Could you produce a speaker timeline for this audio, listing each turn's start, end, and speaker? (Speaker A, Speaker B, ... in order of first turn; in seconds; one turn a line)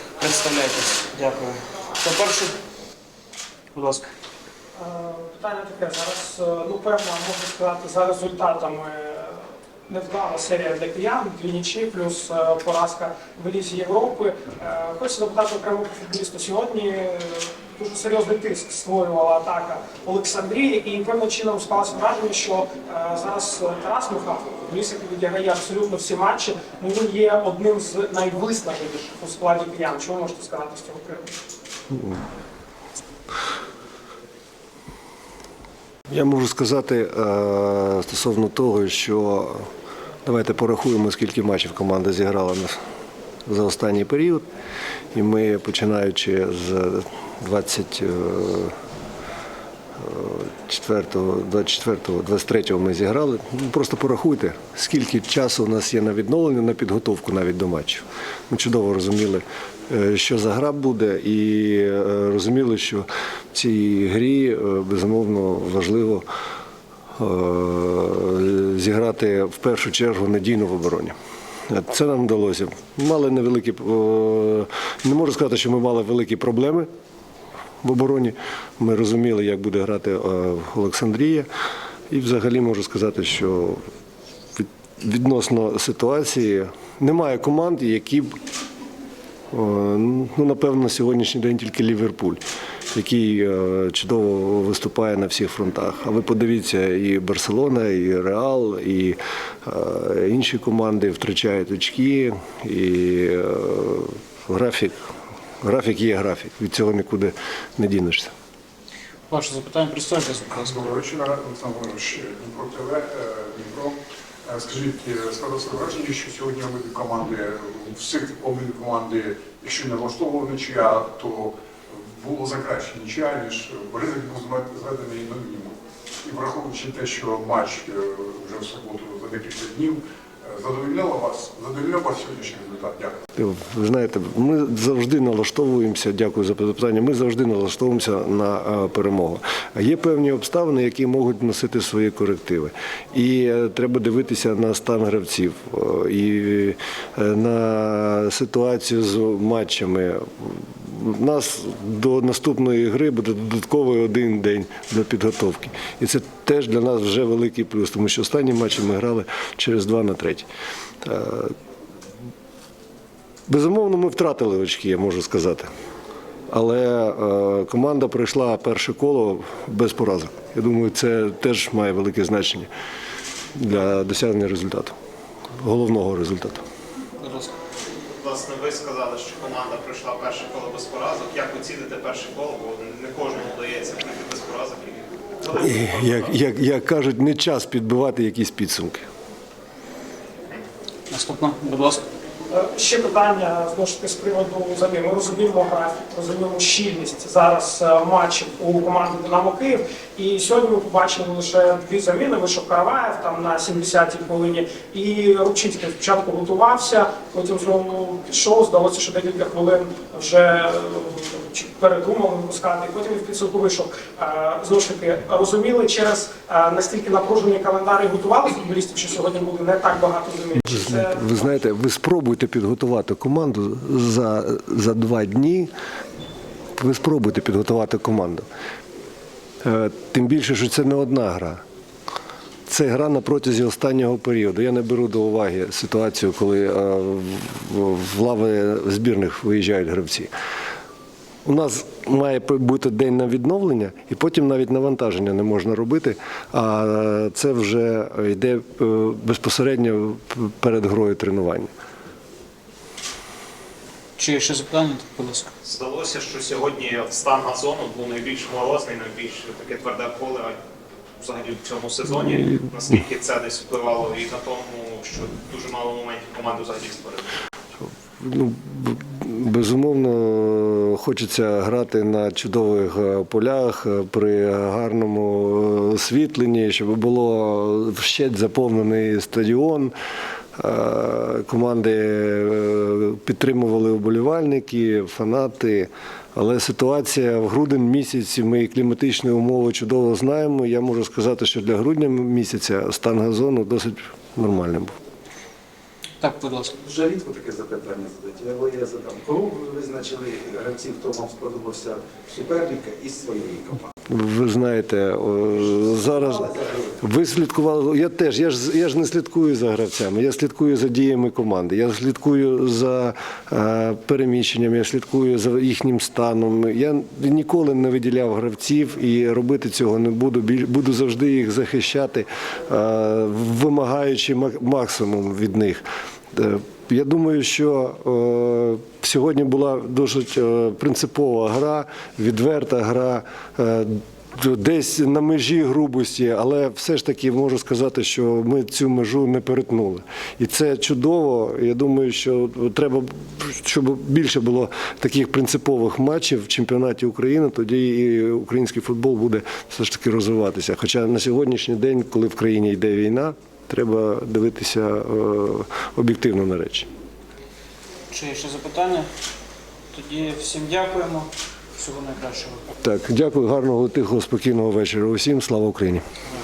Speaker A: 0.2-2.5
Speaker A: 3.7-4.1
Speaker B: 4.8-31.3
Speaker C: 36.1-39.6
Speaker C: 40.2-42.8
Speaker C: 43.5-44.5
Speaker C: 45.1-48.7
Speaker C: 50.0-66.2
Speaker C: 67.2-71.2
Speaker C: 71.7-76.9
Speaker C: 77.8-81.5
Speaker C: 82.1-83.8
Speaker C: 84.5-88.4
Speaker C: 89.5-105.1
Speaker C: 105.6-108.3
Speaker A: 109.3-110.9
Speaker D: 110.5-133.2
Speaker C: 133.3-160.5
Speaker C: 161.0-161.6
Speaker C: 163.5-165.7
Speaker C: 166.5-172.7
Speaker C: 173.6-175.0
Speaker C: 175.6-176.6
Speaker A: 177.2-177.5
Speaker E: 178.2-186.3
Speaker C: 185.5-189.1
Speaker A: 191.1-192.0
Speaker B: 192.5-221.3
Speaker C: 220.6-225.7
Speaker C: 226.8-228.5
Speaker C: 229.6-231.6
Speaker C: 232.7-240.3
Speaker C: 241.4-251.7
Speaker A: 254.2-255.5
Speaker E: 255.6-260.6
Speaker E: 261.2-267.3
Speaker C: 267.9-279.9
Speaker C: 280.6-294.9
Speaker A: 296.2-296.8
Speaker F: 296.8-303.9
Speaker C: 304.1-356.9
Speaker F: 306.2-306.9
Speaker A: 358.1-359.1
Speaker A: 359.9-362.6
Speaker C: 362.8-366.1